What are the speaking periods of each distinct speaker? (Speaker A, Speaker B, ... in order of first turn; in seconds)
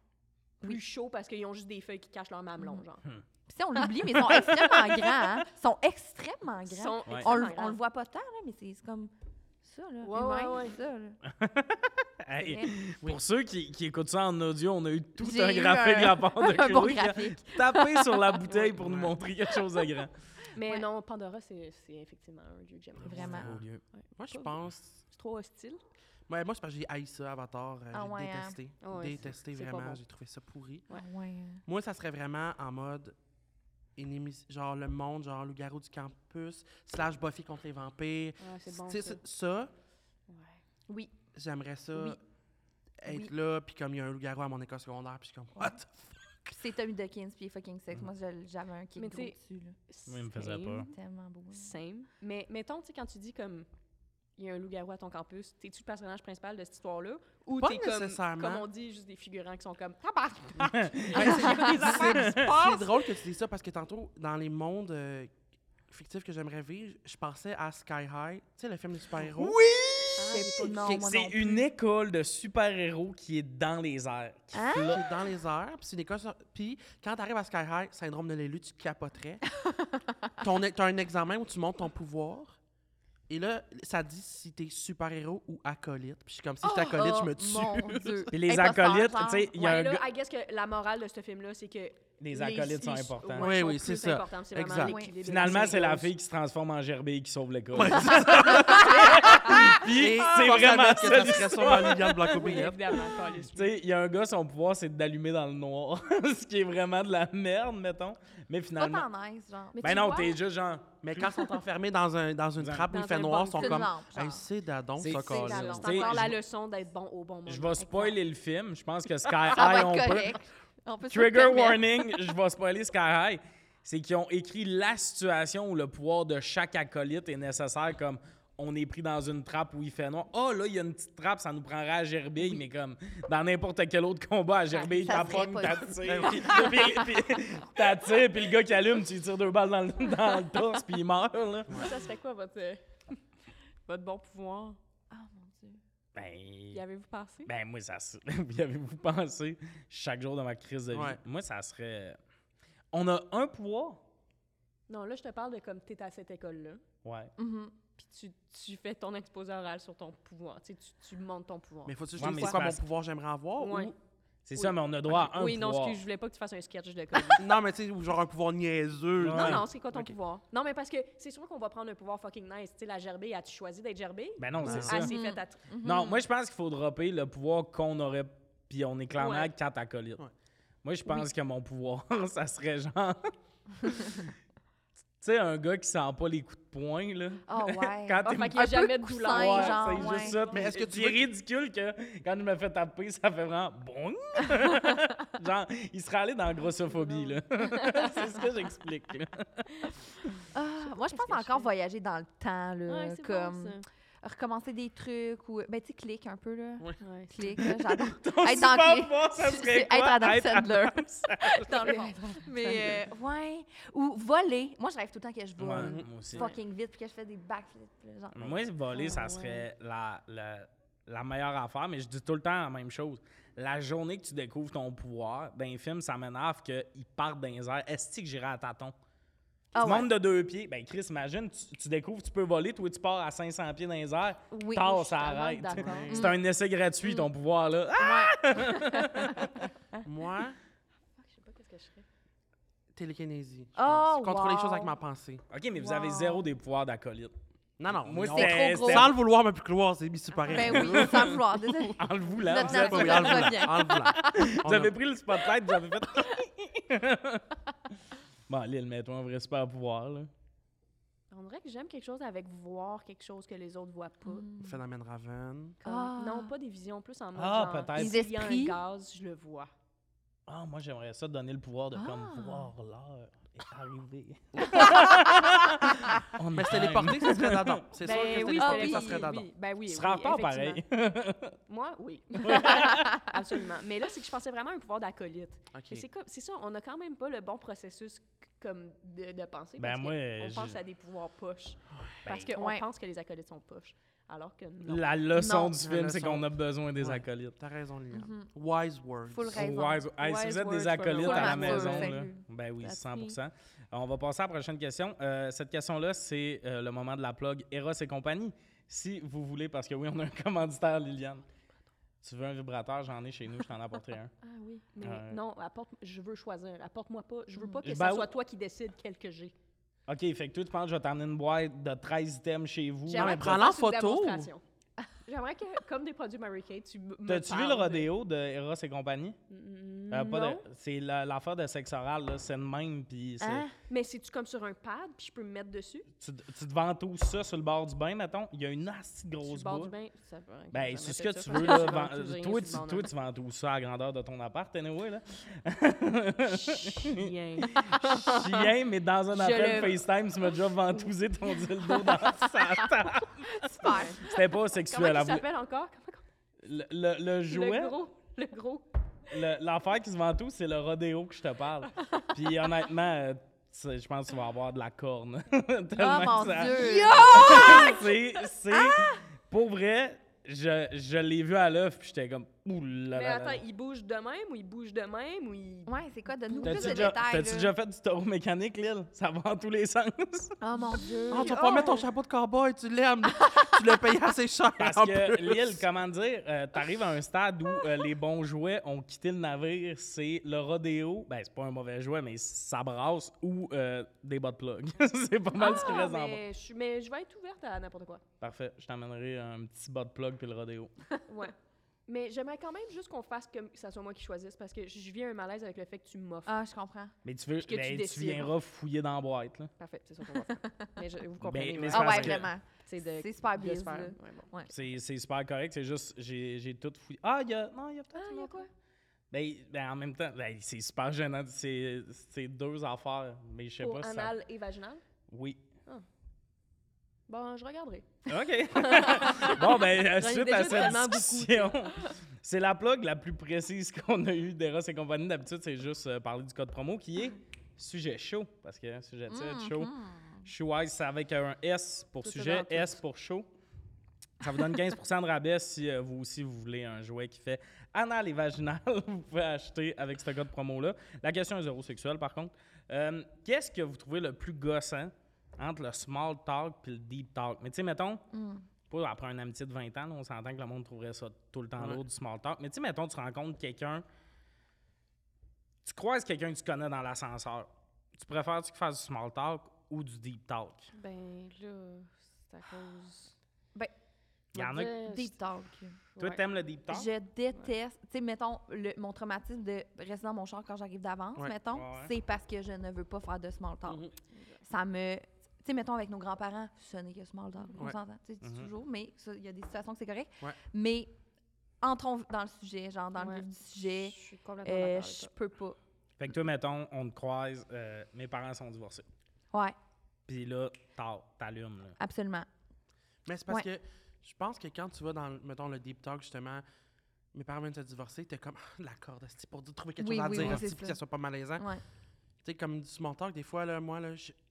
Speaker A: 0.6-3.0, 6.7-7.8, 10.0-10.8, 18.5-18.8, 20.5-25.8, 28.8-30.0, 38.4-39.2, 40.3-41.1, 49.0-49.4, 49.9-50.9, 51.5-53.7, 54.4-63.1, 70.2-71.0, 89.6-96.1, 102.3-103.7, 109.7-110.4, 112.9-113.9, 115.0-118.2, 134.7-135.5, 141.7-143.2, 143.9-144.8, 146.7-147.5, 154.9-156.8, 158.0-162.6, 163.6-163.9, 164.6-167.5, 169.3-175.6, 179.2-179.5, 188.2-190.7, 196.9-198.5, 200.8-201.7, 202.9-203.8, 207.0-207.3, 211.7-212.9, 218.9-219.7, 235.3-236.3, 241.2-242.1, 252.4-253.3, 261.3-264.5, 265.8-269.7, 278.0-280.8, 281.7-295.1, 300.2-302.2, 303.0-303.3, 314.4-319.5, 323.1-324.6, 325.2-328.1, 329.5-330.6, 333.9-336.1, 339.4-343.1, 346.4-348.7, 349.3-350.0, 351.9-352.3, 353.8-356.2, 357.5-358.9, 366.6-368.1, 373.1-375.9, 376.5-377.1, 380.9-382.1, 395.6-398.2, 401.3-401.6, 402.1-406.6, 407.6-408.5, 409.8-414.5, 418.1-418.7, 423.8-425.0, 427.3-432.1, 442.2-443.0, 470.9-473.4, 474.6-475.4, 476.2-476.4, 484.3-484.6, 487.6-487.9, 493.2-495.3
Speaker B: 2.6-2.9, 3.5-11.2, 12.4-12.8, 15.2-18.4, 23.1-23.6, 27.9-28.6, 30.9-31.6, 43.0-43.3, 46.5-49.8, 50.9-51.8, 70.3-71.7, 74.5-75.0, 79.6-80.4, 86.6-89.9, 94.8-95.8, 98.5-99.5, 108.8-110.1, 113.5-114.5, 119.5-122.1, 135.0-137.2, 145.1-145.8, 157.4-157.8, 174.9-176.2, 187.5-190.4, 200.5-218.6, 229.7-230.1, 234.5-236.4, 237.0-237.3, 238.0-240.0, 243.8-245.0, 245.8-246.5, 248.3-249.2, 250.5-254.6, 264.2-264.8, 265.9-266.5, 267.9-268.8, 271.9-272.7, 274.7-275.1, 278.1-279.3, 282.5-283.3, 292.5-292.9, 295.3-295.8, 298.1-298.5, 299.3-300.1, 301.2-303.3, 333.4-333.7, 353.5-354.2, 366.0-368.1, 368.7-369.2, 375.9-377.7, 380.6-381.9, 395.6-396.1, 406.5-407.1, 411.9-414.7, 439.3-440.5, 458.3-458.6, 474.8-476.0, 476.9-484.0, 484.6-491.1, 491.8-495.8, 502.0-502.5, 510.0-511.0
Speaker C: 3.9-5.3, 11.3-20.1, 23.2-23.8, 50.1-50.9, 60.6-62.5, 69.3-70.3, 70.9-75.1, 88.3-90.0, 92.2-93.6, 95.2-102.7, 103.5-109.1, 109.8-111.4, 112.6-112.9, 115.0-116.4, 117.5-120.4, 121.0-141.8, 146.2-146.8, 147.5-152.2, 152.9-154.0, 157.0-157.3, 162.2-162.8, 164.5-166.0, 169.2-169.7, 174.4-175.1, 175.8-180.2, 180.8-184.3, 185.2-188.7, 189.3-199.9, 207.6-211.9, 215.6-216.5, 218.3-228.9, 229.8-239.5, 245.5-247.3, 248.0-249.1, 250.6-253.7, 254.2-257.5, 258.5-260.3, 267.4-268.2, 270.5-277.8, 279.9-281.6, 282.4-283.3, 289.8-290.8, 294.9-297.6, 299.5-311.4, 312.2-314.3, 315.0-315.4, 317.8-318.3, 320.1-323.6, 327.3-329.4, 330.1-333.7, 336.2-339.9, 340.7-353.4, 354.2-355.5, 356.6-357.9, 359.3-373.6, 376.6-380.6, 384.8-396.4, 398.4-400.9, 407.2-409.7, 411.4-412.5, 414.7-418.6, 419.3-424.3, 425.3-425.6, 428.3-439.9, 440.4-443.5, 444.4-458.2, 458.9-464.1, 465.8-470.9, 474.5-475.0, 476.2-477.1, 481.7-482.1, 488.4-488.7, 496.2-499.1, 500.3-502.0
Speaker D: 18.8-19.1, 23.0-23.6, 24.2-25.0, 26.3-30.9, 31.7-33.1, 34.0-39.7, 41.3-42.2, 43.0-46.5, 57.6-58.7, 61.1-65.3, 65.9-70.1, 74.9-79.5, 80.4-82.6, 83.3-88.3, 93.4-95.0, 97.8-103.0, 111.0-116.3, 136.0-137.0, 150.9-151.2, 161.9-163.9, 167.3-170.1, 174.6-175.0, 190.5-191.3, 215.8-216.1, 235.8-236.2, 240.0-240.6, 242.9-245.4, 247.8-251.4, 252.7-254.9, 264.6-265.8, 274.6-274.9, 276.5-279.5, 285.7-286.1, 295.8-299.8, 323.1-324.5, 381.3-385.8, 483.9-484.1, 503.2-506.6, 507.3-511.7, 512.4-514.4